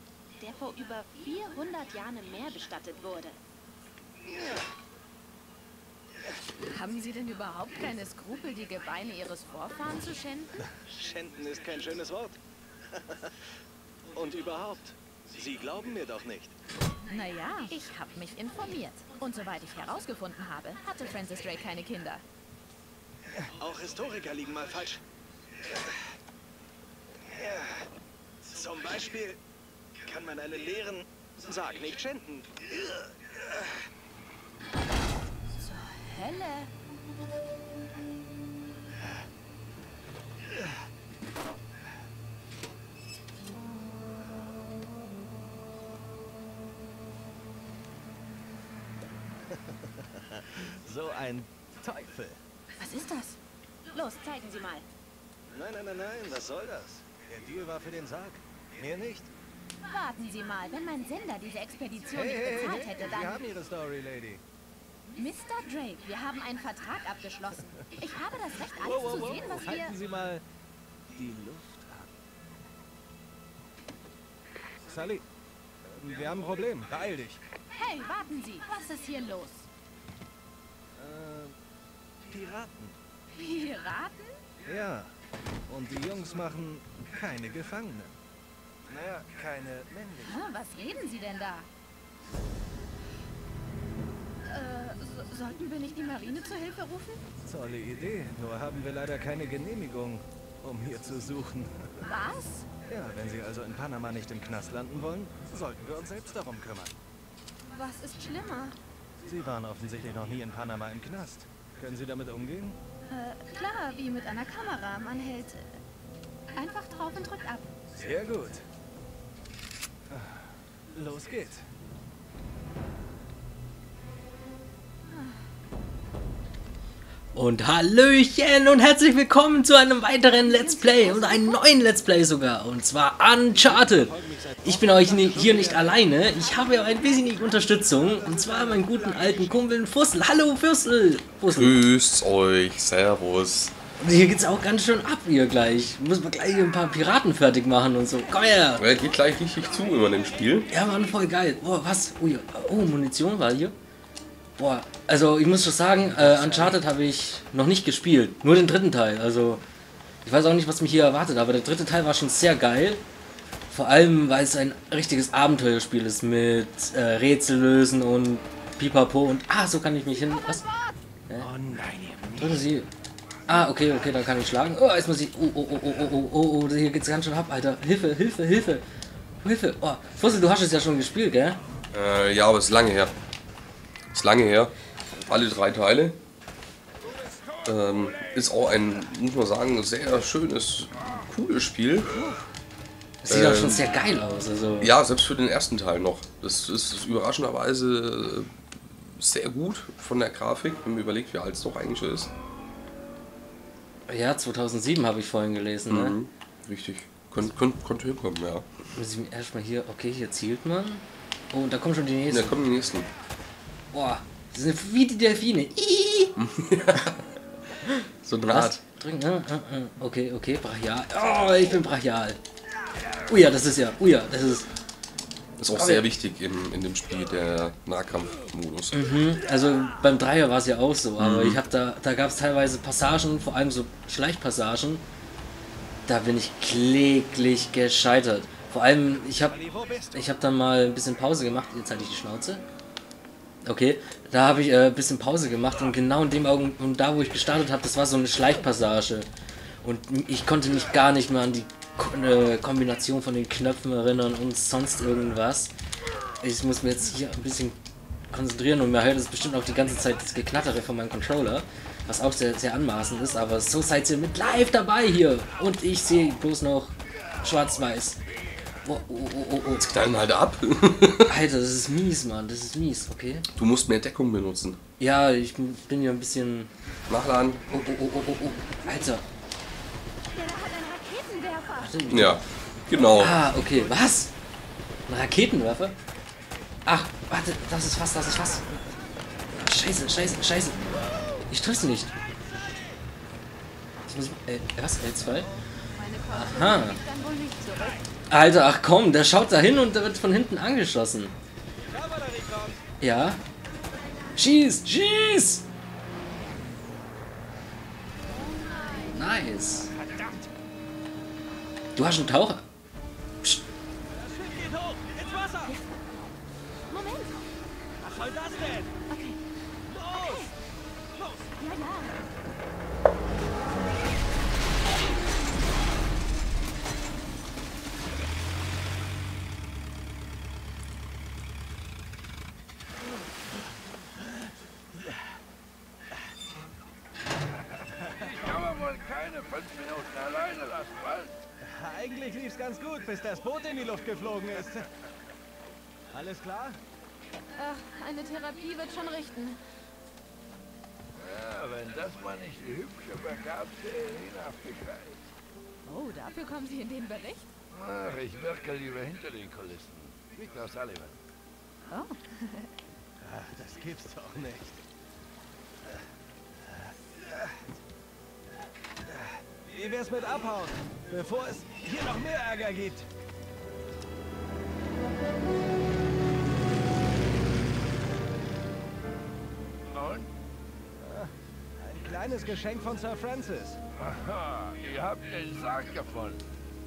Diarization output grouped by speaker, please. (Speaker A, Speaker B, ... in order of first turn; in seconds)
Speaker A: 0.4-3.4, 6.6-10.6, 17.1-22.2, 35.6-36.7, 52.8-53.4, 53.9-54.9, 59.9-63.4, 65.2-70.0, 77.7-79.7, 83.3-84.4, 90.2-91.7, 94.4-97.2, 102.0-102.7, 107.7-108.8, 113.1-115.8, 116.5-117.7, 130.4-131.6, 136.5-137.7, 280.3-281.9, 295.4-298.1, 315.6-315.9, 316.9-317.5, 319.1-319.4, 320.0-320.5, 321.6-322.3, 347.6-349.6, 355.9-357.5, 361.9-362.8
Speaker B: 10.7-12.4, 12.9-13.4, 14.1-16.6, 23.4-25.0, 27.3-27.9, 28.4-29.4, 30.1-33.6, 49.5-52.4, 55.5-59.3, 62.1-64.4, 68.8-70.4, 71.2-72.1, 74.8-75.2, 75.9-77.4, 81.0-81.6, 82.3-83.0, 84.7-85.1, 85.7-88.2, 88.9-90.4, 97.4-102.0, 102.9-106.9, 109.3-112.8, 118.0-118.6, 120.1-121.7, 133.5-136.0, 138.0-139.6, 156.2-156.8, 171.4-172.4, 239.5-240.3, 301.8-302.8, 314.1-315.8, 318.0-318.9, 319.9-320.5, 321.2-321.4, 341.6-344.9, 346.1-346.8, 363.2-364.8, 366.7-367.4, 369.1-373.1, 381.0-383.8
Speaker C: 127.3-141.8, 144.0-148.9, 150.7-153.8, 154.6-159.6, 160.2-163.0, 163.7-170.7, 172.4-172.9, 173.5-178.8, 179.4-181.6, 193.2-194.9, 204.1-206.2, 208.9-212.7, 213.9-216.4, 218.5-222.4, 223.3-224.7, 225.7-226.1, 228.9-235.0, 236.1-239.6, 240.1-242.6, 243.6-249.3, 249.8-255.7, 256.4-257.8, 258.3-268.2, 268.9-269.9, 271.3-273.5, 275.0-276.7, 277.7-279.2, 281.8-282.4, 283.1-284.3, 285.1-286.0, 286.9-288.7, 289.6-292.1, 294.1-295.5, 296.3-297.0, 298.3-301.4, 303.0-303.4, 304.4-305.6, 309.1-309.9, 312.0-312.7
Speaker D: 141.5-143.8, 148.8-150.7, 181.9-183.1, 184.1-186.2, 187.7-192.2, 193.3-194.0, 194.8-202.3, 205.9-208.7, 212.3-213.1, 216.4-217.2, 218.2-218.8, 225.6-229.0, 231.2-231.6, 269.8-271.4, 273.6-274.8, 277.1-277.6, 282.1-283.4
Speaker E: 338.2-341.4, 351.2-355.2, 357.7-361.2, 379.9-380.3, 384.0-386.5